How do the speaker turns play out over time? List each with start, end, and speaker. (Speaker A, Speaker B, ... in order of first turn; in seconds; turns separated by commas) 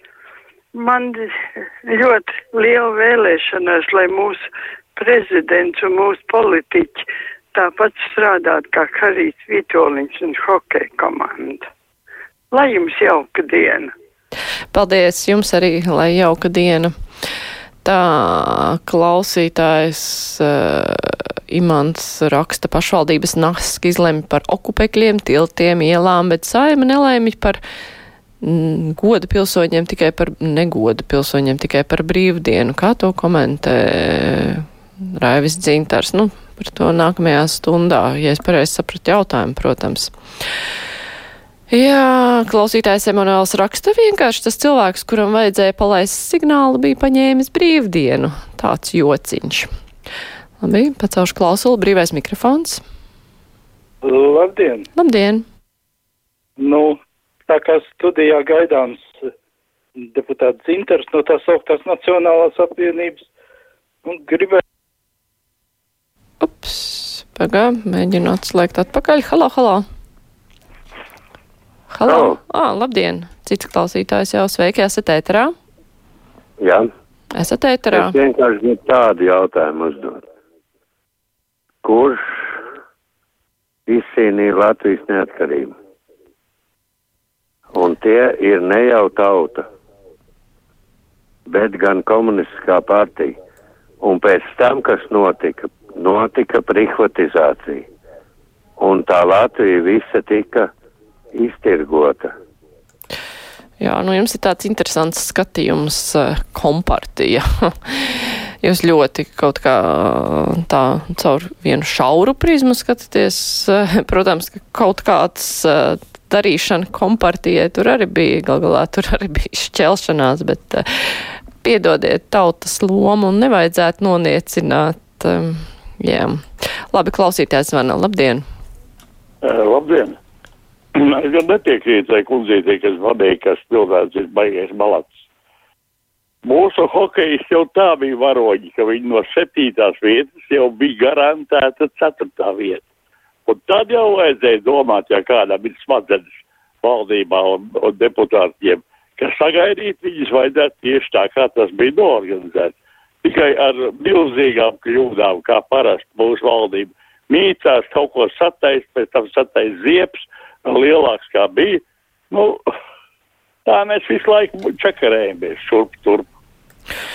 Speaker A: 0.7-11.7, Speaker A: 12.5-13.9, Speaker B: 14.7-16.9, Speaker B: 17.8-27.6, Speaker B: 28.4-40.1, Speaker B: 41.7-49.7, Speaker B: 50.6-52.8, Speaker C: 54.0-54.9, Speaker B: 55.0-55.4, Speaker C: 56.6-59.3, Speaker C: 60.0-63.2, Speaker C: 64.0-64.6, Speaker B: 66.4-69.8, Speaker B: 71.9-75.5, Speaker D: 72.1-72.4, Speaker D: 76.6-76.9, Speaker B: 77.3-78.2, Speaker D: 77.9-80.2, Speaker D: 81.8-82.5, Speaker D: 83.9-85.7, Speaker D: 87.7-89.7, Speaker D: 91.5-93.4, Speaker D: 94.0-97.9, Speaker D: 98.8-100.7, Speaker D: 101.3-102.3, Speaker B: 103.8-120.8, Speaker B: 121.6-126.4, Speaker B: 126.9-128.4, Speaker E: 129.4-130.1, Speaker E: 131.0-135.2, Speaker E: 136.4-142.8, Speaker E: 143.5-146.3, Speaker E: 146.8-162.6, Speaker E: 163.7-166.2